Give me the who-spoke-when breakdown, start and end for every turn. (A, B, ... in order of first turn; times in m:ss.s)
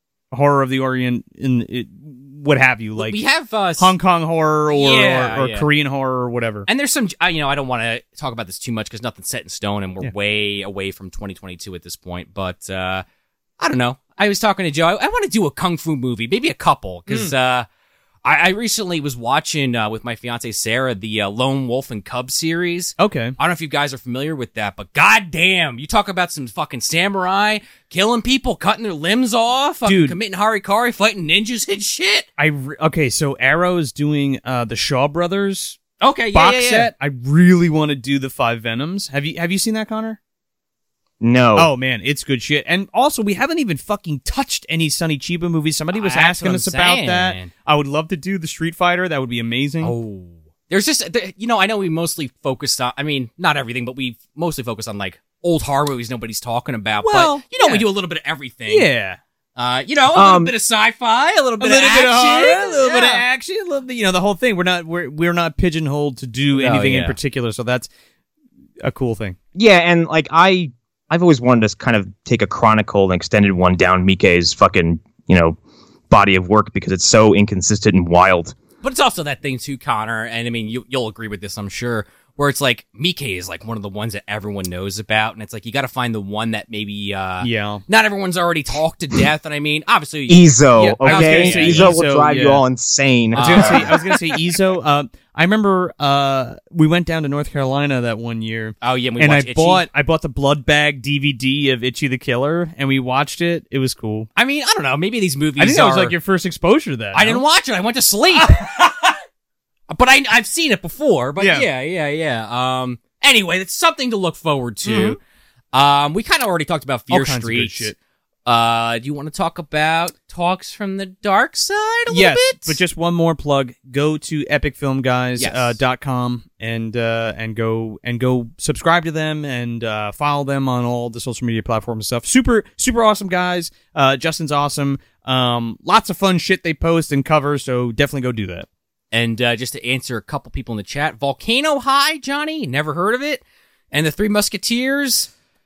0:00.3-0:03.2 A
0:03.0-0:03.9 B
0:03.8-0:06.7 A
0:04.7-0:05.7 B
0:06.7-0:13.0 B
0:13.6-0:17.7 B
0:17.1-0:17.3 A
0:18.2-0:32.3 B
0:23.0-0:23.3 A
0:29.8-0:30.2 A
0:32.4-0:35.8 A
0:36.0-0:36.9 B
0:36.3-0:40.2 A
0:41.2-0:41.7 C
0:41.6-0:49.9 A
0:45.9-0:47.5 B
0:49.8-0:58.9 B
0:57.0-0:57.8 A
0:58.7-0:59.2 A
0:59.6-1:03.2 B
1:00.1-1:00.5 C
1:01.6-1:07.9 A
1:06.5-1:07.2 B
1:08.8-1:09.4 A
1:09.5-1:15.6 C
1:16.1-1:18.5 C
1:18.8-1:32.0 B
1:27.4-1:27.8 A
1:30.3-1:34.0 C
1:30.8-1:32.6 A
1:33.3-1:34.1 B
1:33.3-1:44.3 A
1:38.8-1:39.8 B
1:44.4-1:46.1 B
1:45.6-1:47.4 A
1:47.1-1:49.2 B
1:49.9-1:55.2 B
1:51.4-1:51.7 A
1:54.8-1:55.2 A
1:55.7-1:57.9 B
1:57.1-1:58.0 A
1:58.4-2:02.8 B
2:02.1-2:18.7 A
2:05.4-2:05.8 B
2:19.1-2:25.3 B